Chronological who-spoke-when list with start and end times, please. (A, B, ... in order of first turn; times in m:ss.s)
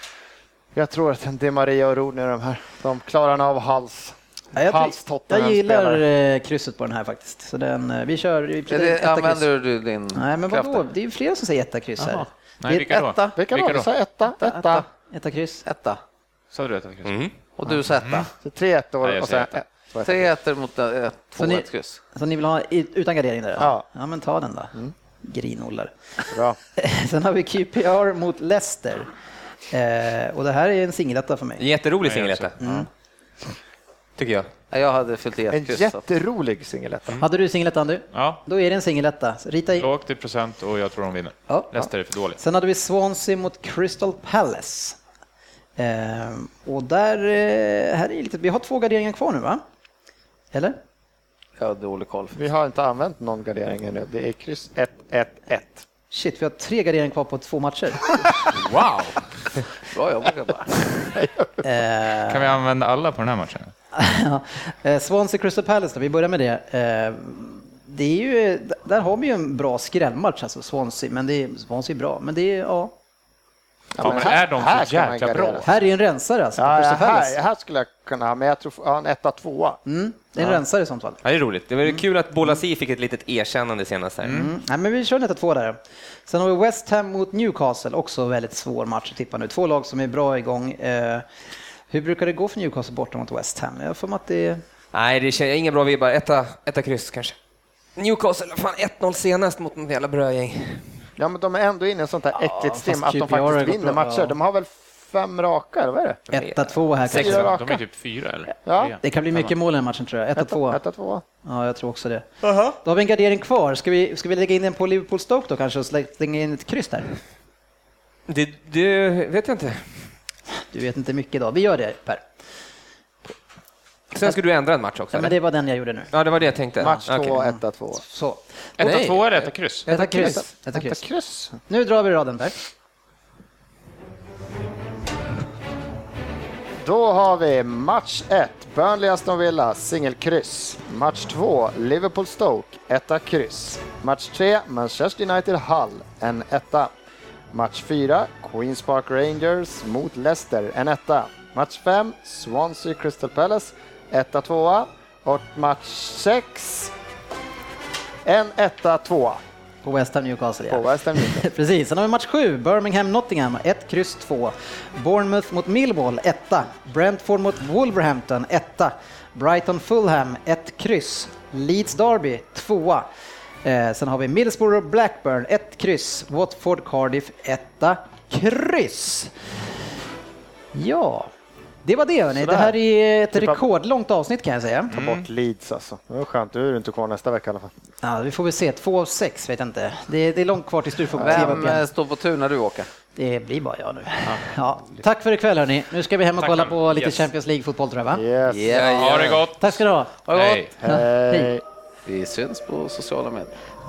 0:00.7-0:06.0 A
0:04.6-0:09.5 B
0:08.7-0:10.8 C
0:10.1-0:13.3 B
0:12.0-0:12.3 C
0:12.6-0:13.9 D
0:13.4-0:14.8 A
0:14.4-0:14.9 C
0:15.1-0:15.6 B
0:15.6-0:16.0 C
0:16.5-0:17.2 D
0:17.0-0:17.3 E
0:17.6-0:18.3 C
0:18.0-0:18.3 D
0:18.4-0:20.3 A
0:19.0-0:19.6 D
0:20.0-0:22.0 C
0:21.4-0:29.1 B
0:23.6-0:23.8 A
0:26.3-0:26.6 A
0:29.7-0:31.6 B
0:31.6-0:32.5 E
0:32.0-0:32.5 D
0:32.6-0:32.9 B
0:32.6-0:32.9 A
0:34.2-0:34.5 E
0:34.7-0:36.0 C
0:35.5-0:37.2 A
0:37.2-0:39.9 B
0:38.1-0:38.4 D
0:39.8-0:42.4 D
0:41.5-0:41.7 B
0:42.4-0:45.0 B
0:45.8-0:49.6 B
0:50.5-0:50.8 B
0:51.6-0:52.4 C
0:52.4-0:55.9 A
0:56.1-0:58.3 B
0:58.5-0:59.3 D
0:59.9-1:01.1 C
1:01.2-1:01.6 A
1:01.6-1:02.6 B
1:02.3-1:03.7 D
1:04.0-1:12.9 B
1:13.9-1:15.7 A
1:14.0-1:15.7 D
1:15.6-1:17.4 B
1:16.6-1:19.8 A
1:19.9-1:21.2 B
1:21.2-1:24.4 E
1:21.8-1:22.6 B
1:24.2-1:24.5 D
1:24.3-1:31.2 B
1:31.9-1:34.6 B
1:34.9-1:37.4 E
1:38.0-1:41.1 E
1:41.2-1:46.2 A
1:42.4-1:44.4 B
1:46.3-1:47.5 B
1:46.3-1:47.5 E
1:47.1-1:47.8 A
1:47.2-1:49.5 D
1:48.6-1:49.0 A
1:49.0-1:50.8 B
1:50.4-1:51.2 A
1:51.4-1:57.1 B
1:58.3-2:00.1 E
2:00.7-2:02.3 B
2:04.1-2:05.4 E
2:05.1-2:06.1 B
2:06.1-2:07.4 E
2:06.8-2:09.2 B
2:06.8-2:08.0 A
2:08.8-2:09.9 D
2:09.9-2:11.0 B
2:09.9-2:11.6 A
2:11.7-2:12.6 B
2:16.8-2:26.9 A
2:27.5-2:36.9 A
2:38.2-2:39.4 A
2:39.8-2:53.1 B
2:40.7-2:41.4 A
2:53.6-2:59.3 B
3:00.7-3:01.3 B
3:01.8-3:05.0 B
3:02.3-3:02.8 A
3:03.3-3:03.6 A
3:04.9-3:05.3 D
3:05.0-3:07.7 A
3:08.0-3:11.8 B
3:11.1-3:11.7 A
3:11.2-3:12.9 C
3:13.2-3:18.2 B
3:14.2-3:14.5 D
3:16.4-3:17.3 D
3:18.1-3:18.8 A
3:18.5-3:19.4 C
3:18.8-3:19.3 E
3:18.8-3:20.8 D
3:19.6-3:20.2 B
3:20.3-3:20.6 C
3:20.8-3:21.6 A
3:20.8-3:21.6 B
3:22.1-3:23.6 C